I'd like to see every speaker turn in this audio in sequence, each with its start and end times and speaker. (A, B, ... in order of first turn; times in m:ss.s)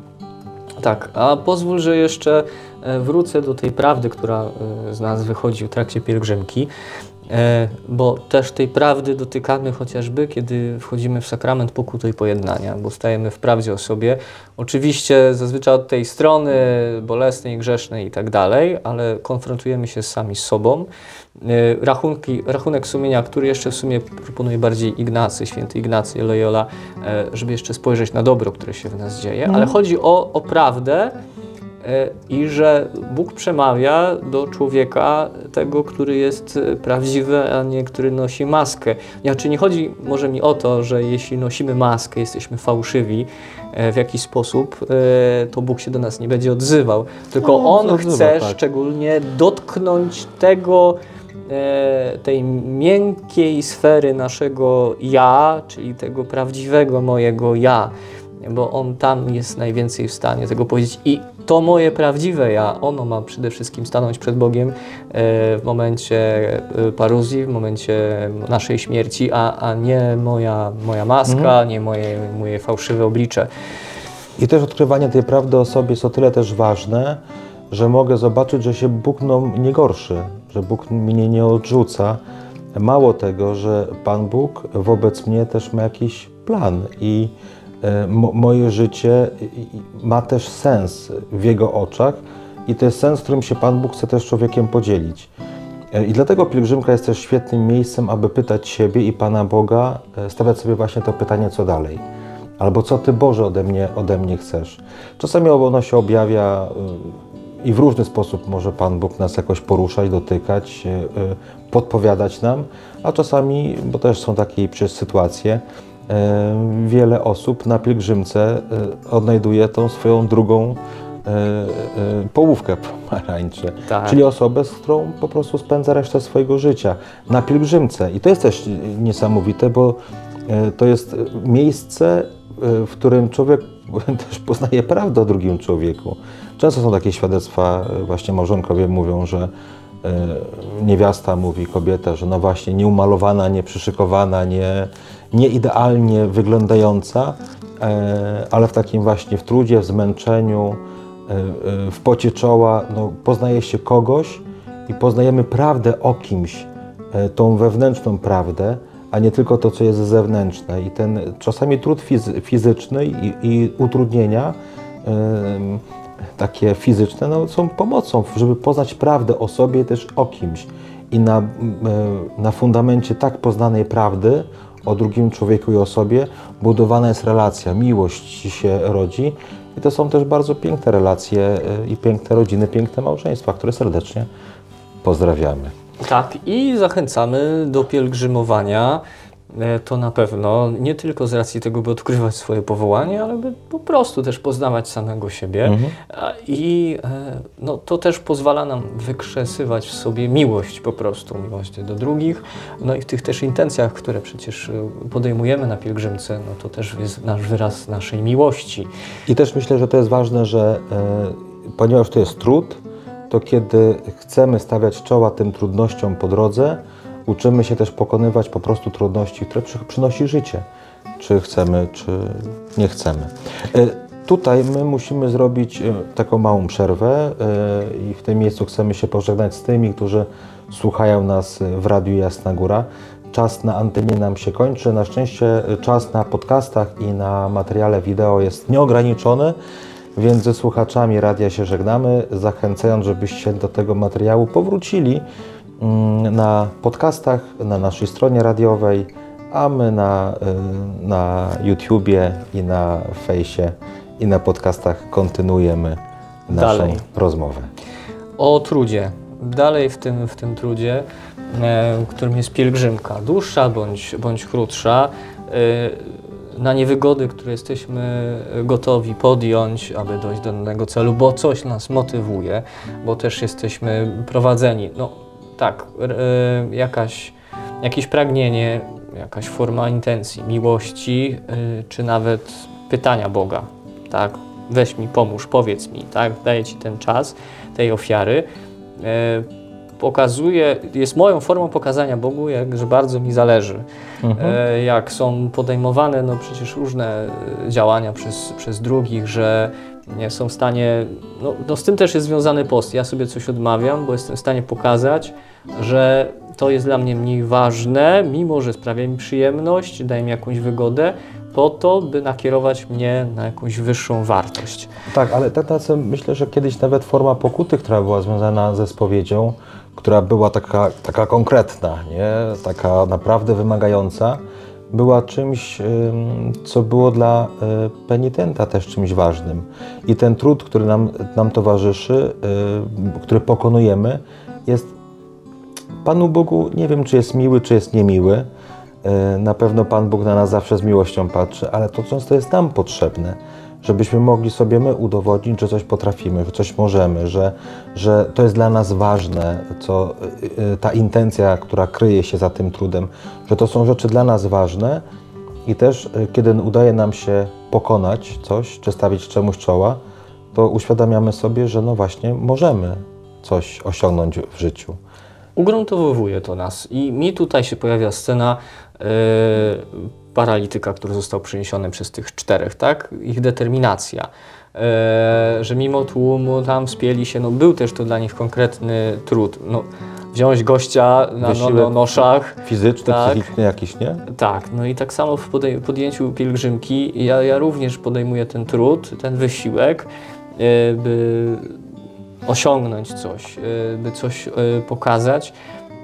0:00.8-0:06.7 A
0:07.3-0:31.1 A
0:29.4-0:29.8 B
0:31.8-1:13.5 A
0:47.4-0:48.6 B
1:11.3-1:11.6 B
1:14.4-1:22.2 B
1:22.8-1:35.3 B
1:35.9-1:42.0 B
1:42.6-2:19.5 B
2:03.9-2:04.2 A
2:20.0-2:45.8 B
2:46.4-3:04.3 B
3:05.0-3:05.7 B
3:06.0-3:28.9 A
3:15.6-3:15.9 B
3:29.3-3:40.6 B
3:41.2-3:59.6 B
4:00.2-4:05.2 B
4:05.8-4:17.7 B
4:16.5-4:17.0 A
4:18.4-4:48.4 A
4:49.0-4:49.5 A
4:50.0-4:53.8 A
4:54.2-4:54.6 B
4:54.4-5:14.9 A
5:15.1-5:24.4 B
5:24.9-5:34.9 B
5:36.0-5:38.5 B
5:39.0-5:55.0 B
5:55.6-6:00.0 B
6:00.5-6:05.0 B
6:05.6-6:23.5 A
6:21.4-6:24.2 B
6:24.3-6:31.8 A
6:32.4-6:35.5 A